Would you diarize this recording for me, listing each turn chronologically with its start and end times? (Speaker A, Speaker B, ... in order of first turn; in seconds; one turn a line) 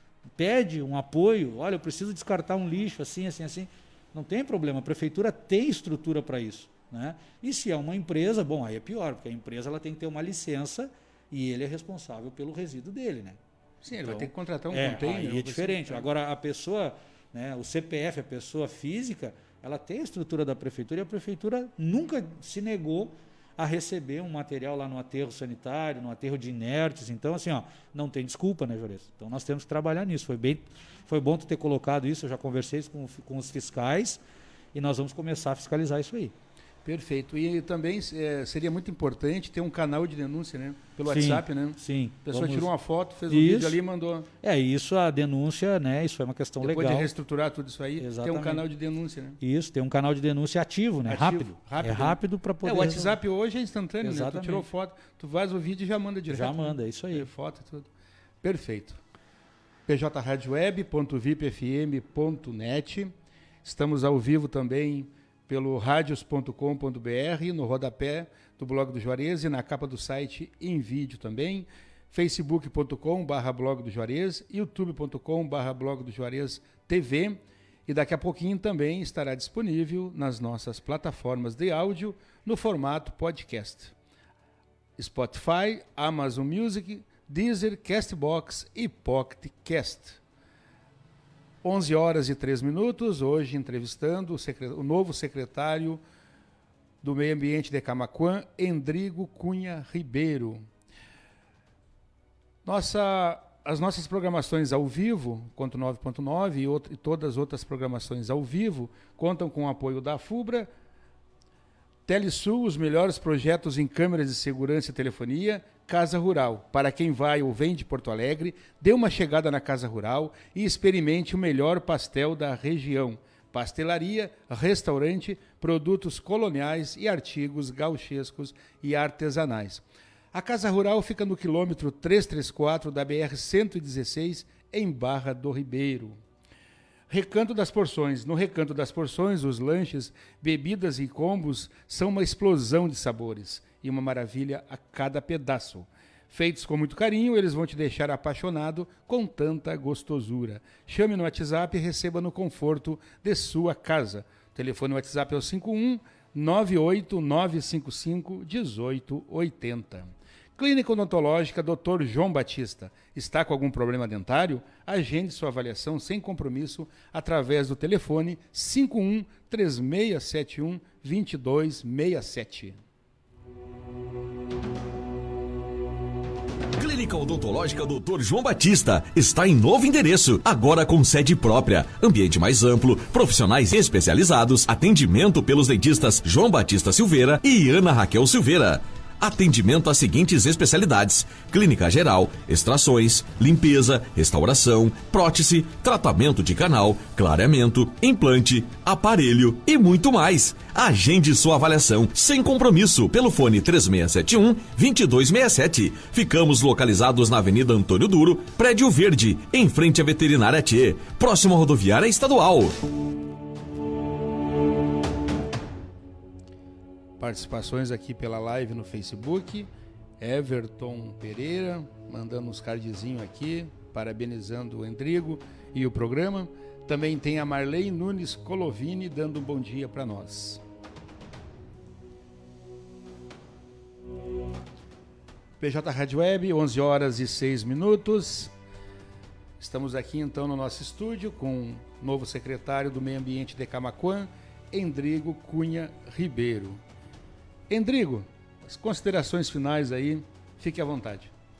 Speaker A: 0.4-13.4
Speaker B: 13.8-16.1
Speaker A: 14.0-34.2
Speaker A: 34.7-36.3
Speaker B: 36.8-44.3
Speaker A: 41.1-42.7
Speaker A: 43.3-43.8
Speaker A: 44.4-47.1
Speaker B: 46.6-49.4
Speaker A: 48.0-48.6
Speaker A: 49.4-53.2
Speaker B: 51.1-57.9
Speaker A: 54.0-54.7
Speaker A: 56.3-57.3
Speaker B: 58.4-59.0
Speaker B: 59.9-83.9
Speaker B: 85.0-90.2
Speaker B: 91.6-96.0
Speaker B: 97.0-100.7
Speaker B: 102.6-110.7
Speaker B: 112.1-136.2
Speaker B: 137.1-172.8
Speaker C: 176.8-212.8
Speaker B: 217.2-230.6
Speaker B: 235.6-238.5
Speaker B: 239.6-246.8
Speaker B: 247.7-251.3